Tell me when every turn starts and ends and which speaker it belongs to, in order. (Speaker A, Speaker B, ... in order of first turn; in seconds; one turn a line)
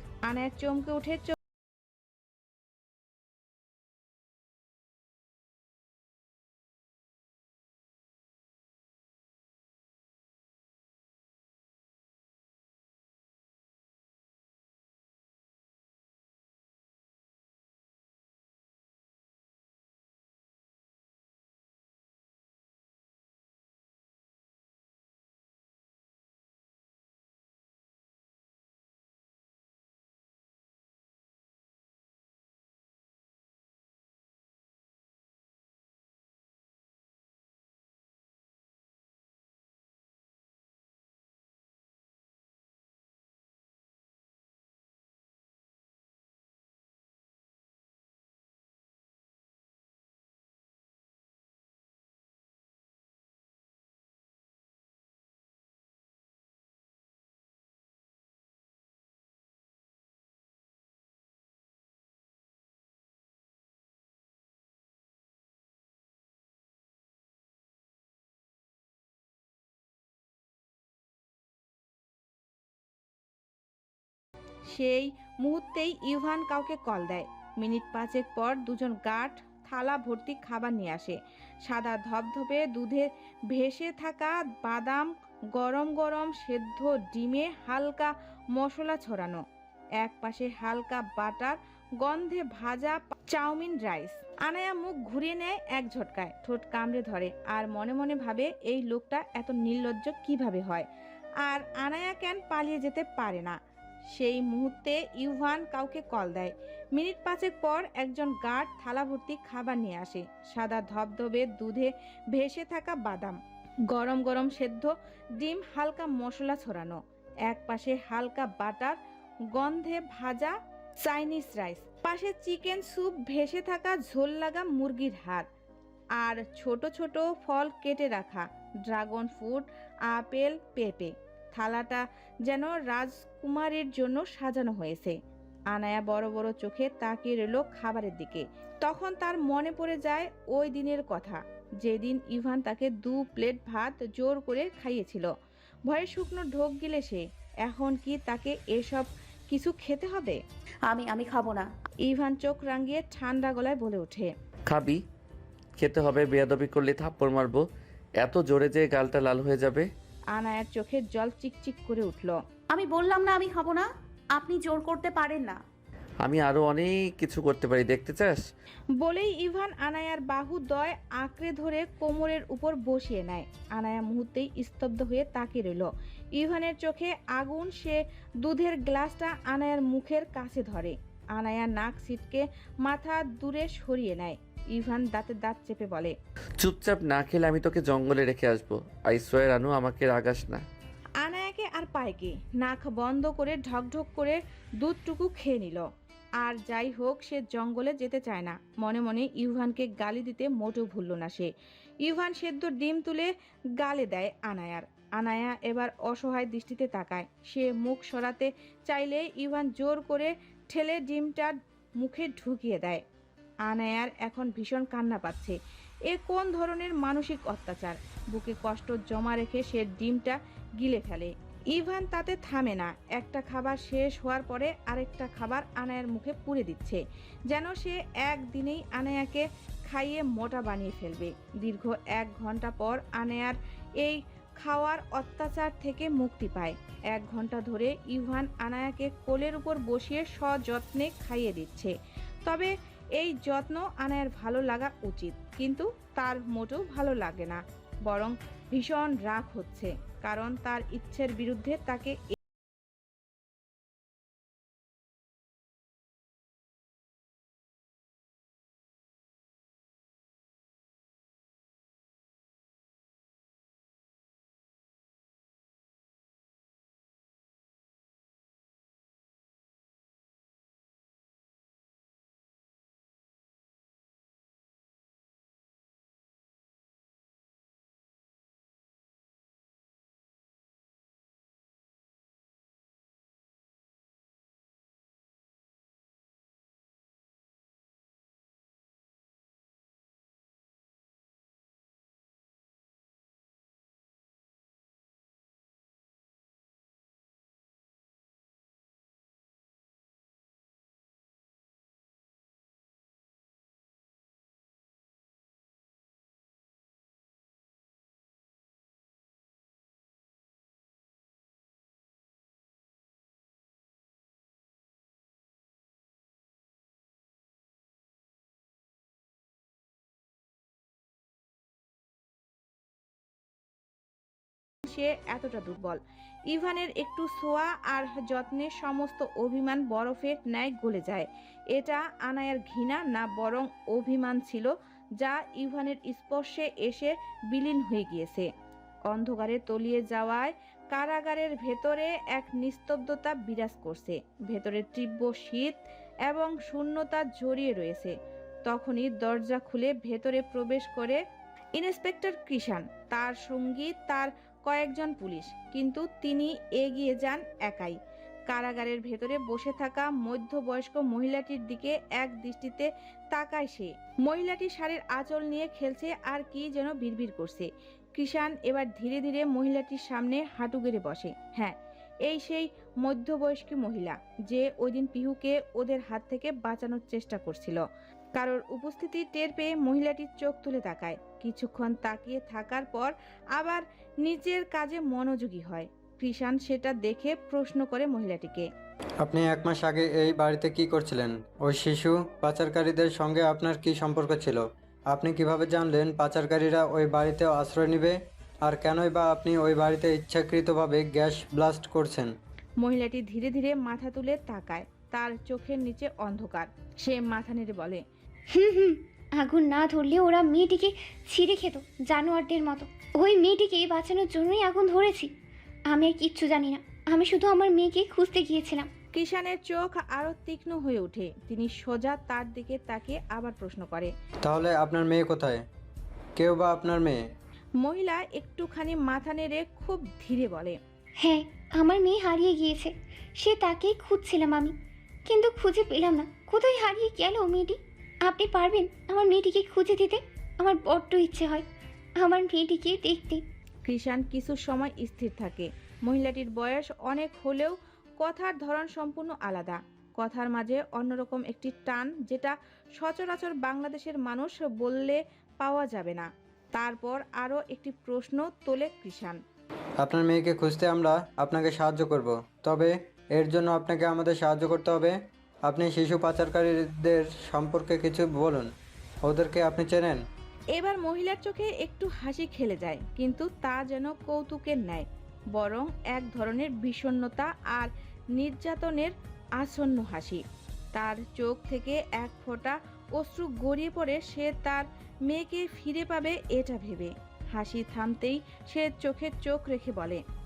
Speaker A: 0.2-1.3
Speaker A: 74.7-89.4
Speaker A: 90.0-100.9
Speaker A: 101.4-103.6
Speaker A: 104.1-113.4
Speaker A: 113.9-119.0
Speaker A: 119.5-125.5
Speaker A: 126.2-135.2
Speaker A: 135.7-145.3
Speaker A: 145.9-150.4
Speaker B: 150.9-151.7
Speaker A: 152.0-154.3
Speaker C: 154.7-155.0
Speaker C: 155.8-157.6
Speaker C: 158.2-159.9
Speaker A: 160.3-162.4
Speaker B: 162.7-165.6
Speaker C: 166.2-168.4
Speaker A: 169.0-186.1
Speaker C: 186.6-190.6
Speaker A: 191.2-195.8
Speaker A: 196.4-201.5
Speaker A: 202.0-213.0
Speaker A: 213.7-215.6
Speaker A: 216.1-241.9
Speaker A: 242.4-252.3
Speaker A: 324.8-338.5
Speaker A: 339.1-348.1
Speaker A: 348.6-351.2
Speaker A: 351.8-357.9
Speaker A: 358.5-377.8
Speaker A: 378.3-388.7
Speaker D: 389.2-402.3
Speaker A: 402.8-408.0
Speaker E: 408.5-415.3
Speaker E: 415.9-418.9
Speaker A: 419.1-424.1
Speaker D: 424.4-425.6
Speaker D: 426.4-427.2
Speaker A: 427.8-430.8
Speaker E: 431.2-434.7
Speaker E: 435.3-441.6
Speaker E: 442.2-443.4
Speaker A: 443.8-459.4
Speaker D: 460.0-468.7
Speaker D: 469.2-470.2
Speaker A: 470.7-480.4
Speaker A: 480.9-490.2